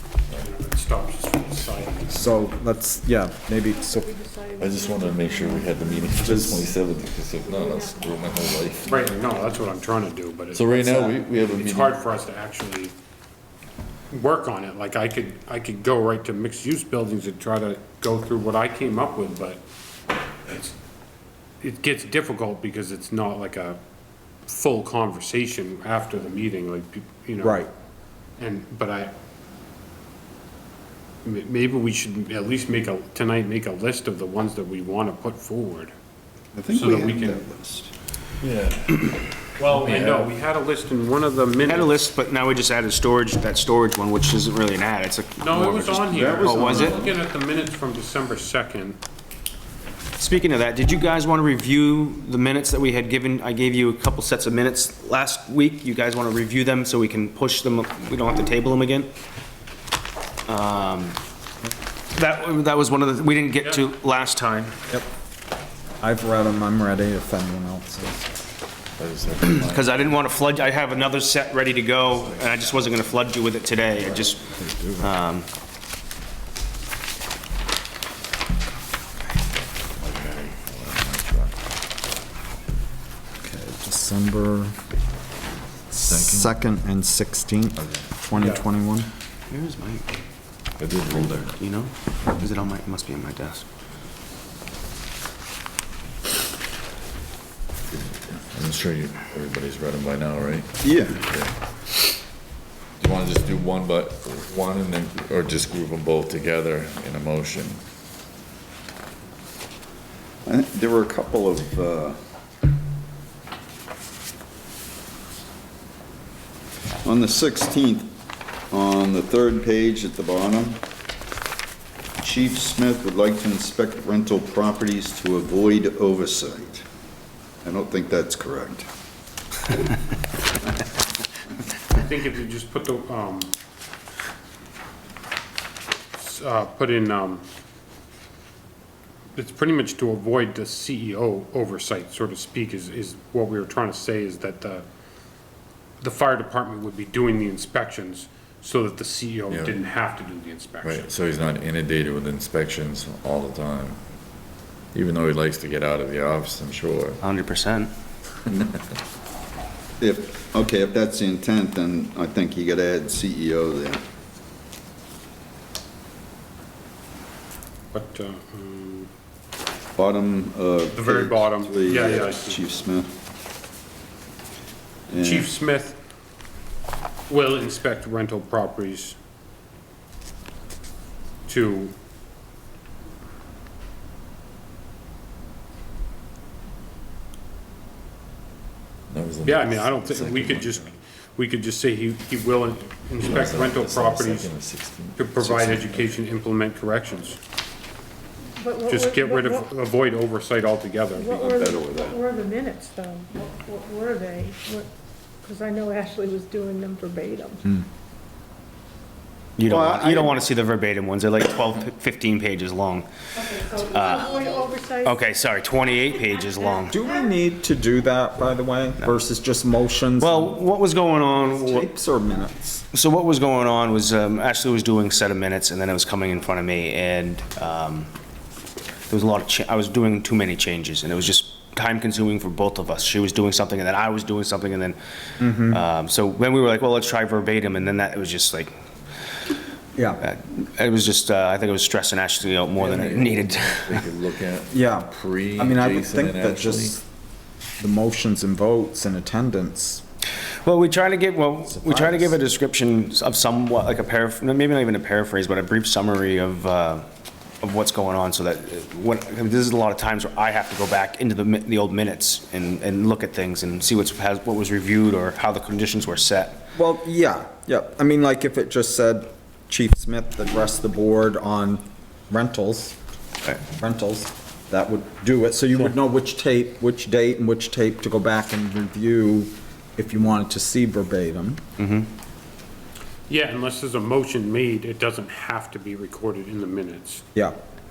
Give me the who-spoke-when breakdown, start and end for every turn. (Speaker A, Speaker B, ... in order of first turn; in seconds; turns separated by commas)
Speaker A: 0.4-2.4, Speaker B: 2.1-4.1, Speaker C: 3.6-6.7, Speaker D: 4.6-9.3, Speaker B: 6.2-6.6, Speaker C: 7.4-8.6, Speaker A: 8.9-12.9, Speaker D: 10.5-12.0, Speaker A: 14.1-19.6, Speaker A: 20.5-20.7, Speaker A: 21.6-23.8, Speaker A: 24.4-27.6, Speaker B: 27.4-27.7, Speaker A: 28.4-29.1, Speaker A: 31.2-35.9, Speaker E: 36.5-37.9, Speaker A: 36.7-37.4, Speaker D: 38.4-40.3, Speaker A: 39.6-41.9, Speaker F: 41.6-47.0, Speaker A: 45.4-49.0, Speaker E: 46.1-47.2, Speaker F: 50.2-59.1, Speaker F: 60.5-61.2, Speaker F: 62.1-64.7, Speaker B: 66.0-68.3, Speaker D: 69.0-70.0, Speaker F: 69.4-74.4, Speaker D: 72.1-72.9, Speaker B: 74.4-75.1, Speaker F: 75.0-75.5, Speaker D: 79.9-81.5, Speaker B: 83.4-84.7, Speaker B: 85.9-89.1, Speaker D: 86.0-86.5, Speaker A: 88.3-88.6, Speaker F: 89.5-90.0, Speaker D: 90.8-91.5, Speaker F: 91.2-93.6, Speaker D: 97.9-101.5, Speaker E: 100.8-101.2, Speaker D: 103.0-107.8, Speaker E: 110.5-112.2, Speaker E: 117.0-118.1, Speaker E: 118.7-120.8, Speaker E: 122.2-126.8, Speaker E: 127.6-128.8, Speaker A: 131.9-133.5, Speaker A: 136.1-137.4, Speaker A: 139.3-144.8, Speaker A: 146.0-151.1, Speaker D: 149.5-149.8, Speaker D: 150.8-154.0, Speaker D: 154.9-157.2, Speaker F: 157.2-157.9, Speaker D: 158.5-158.8, Speaker E: 160.0-164.0, Speaker A: 167.9-169.1, Speaker E: 170.0-173.1, Speaker A: 170.9-172.6, Speaker E: 175.1-175.5, Speaker A: 175.2-176.0, Speaker A: 177.3-179.2, Speaker A: 181.4-181.9, Speaker D: 189.1-190.9, Speaker A: 189.4-194.5, Speaker D: 193.2-196.2, Speaker A: 195.2-197.4, Speaker C: 198.6-199.7, Speaker A: 198.8-201.4, Speaker C: 201.1-204.9, Speaker E: 201.4-202.1, Speaker C: 205.4-207.8, Speaker F: 209.6-213.1, Speaker E: 209.7-210.3, Speaker C: 213.4-215.2, Speaker F: 213.7-217.0, Speaker B: 216.9-220.6, Speaker F: 220.2-221.9, Speaker B: 221.6-222.8, Speaker F: 222.9-228.1, Speaker F: 229.1-235.0, Speaker B: 235.4-235.8, Speaker F: 235.7-238.7, Speaker B: 239.9-240.2, Speaker F: 240.2-244.1, Speaker D: 242.8-246.9, Speaker B: 244.7-247.0, Speaker B: 247.8-250.0, Speaker F: 250.6-257.1, Speaker B: 251.7-252.4, Speaker F: 257.6-266.6, Speaker B: 266.7-272.9, Speaker B: 273.8-281.6, Speaker F: 281.8-282.1, Speaker A: 283.3-287.2